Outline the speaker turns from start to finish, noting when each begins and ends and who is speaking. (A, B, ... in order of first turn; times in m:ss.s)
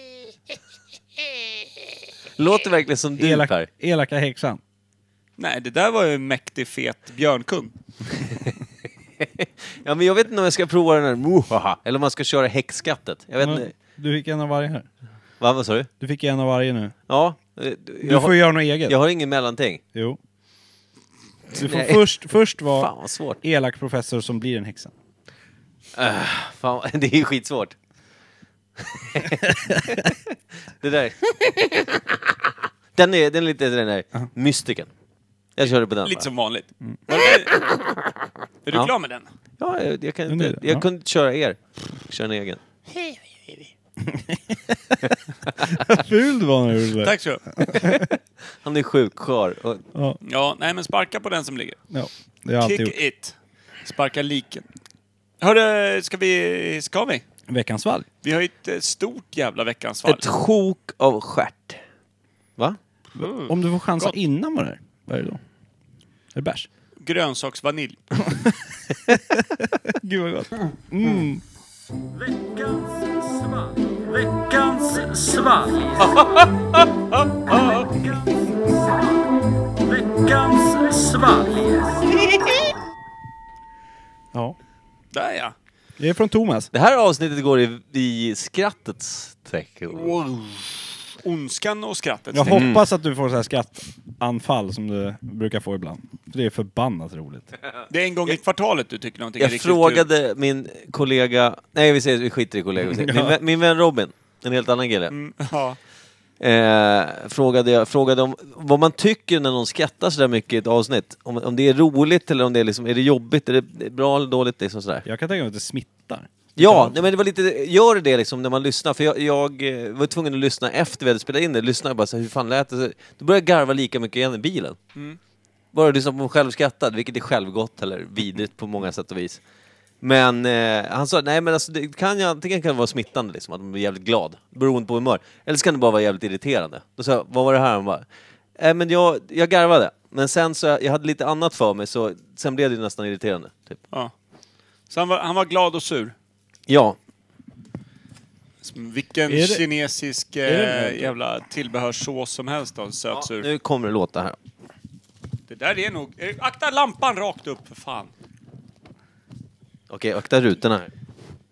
0:02.4-0:03.7 A
0:03.2-0:04.6 B
0:05.4-0:07.7 C
0:09.2-0:13.7 A
0:13.4-0:14.9 B
0:15.4-0:15.9 A
0:16.0-0:17.0 B
0:17.1-0:19.8 A
0:18.0-0:19.0 B
0:21.5-0:22.1 A
0:21.5-0:24.9 B
0:22.7-0:23.4 A
0:25.9-0:27.7 A
0:28.8-0:30.2 A
0:30.8-0:32.0 A
0:32.9-0:34.9 A
0:35.6-0:36.3 A
0:36.0-0:37.6 C
0:38.6-0:39.3 C
0:39.6-0:42.6 A
0:40.3-0:40.8 B
0:42.9-0:43.7 C
0:44.0-0:45.0 B
0:45.6-0:48.1 B
0:47.0-0:48.0 C
0:48.6-0:49.8 A
0:49.9-0:50.2 B
0:50.2-0:51.8 C
0:51.9-0:53.0 B
0:52.6-0:54.6 C
0:55.4-0:57.2 C
0:57.5-0:58.1 B
0:58.2-1:00.3 C
1:00.0-1:01.8 A
1:03.2-1:04.1 C
1:03.2-1:05.4 B
1:06.3-1:06.7 B
1:07.0-1:08.0 C
1:08.3-1:08.6 B
1:09.1-1:11.4 B
1:12.1-1:16.4 C
1:17.4-1:18.8 C
1:19.8-1:22.3 C
1:25.1-1:25.5 C
1:26.0-1:26.7 B
1:26.7-1:30.1 A
1:29.9-1:32.7 C
1:32.3-1:37.5 B
1:32.5-1:32.8 A
1:37.9-1:40.0 C
1:39.4-1:45.1 A
1:42.9-1:43.4 B
1:45.1-1:45.8 C
1:46.4-1:55.0 A
1:55.0-1:57.0 B
1:56.6-2:04.8 A
2:05.7-2:09.4 A
2:10.0-2:18.0 A
2:18.6-2:23.8 A
2:24.9-2:26.1 C
2:26.7-2:27.0 A
2:28.6-2:33.5 C
2:29.3-2:29.6 B
2:30.4-2:31.1 B
2:33.1-2:34.4 A
2:35.5-2:38.1 C
2:39.9-2:40.9 A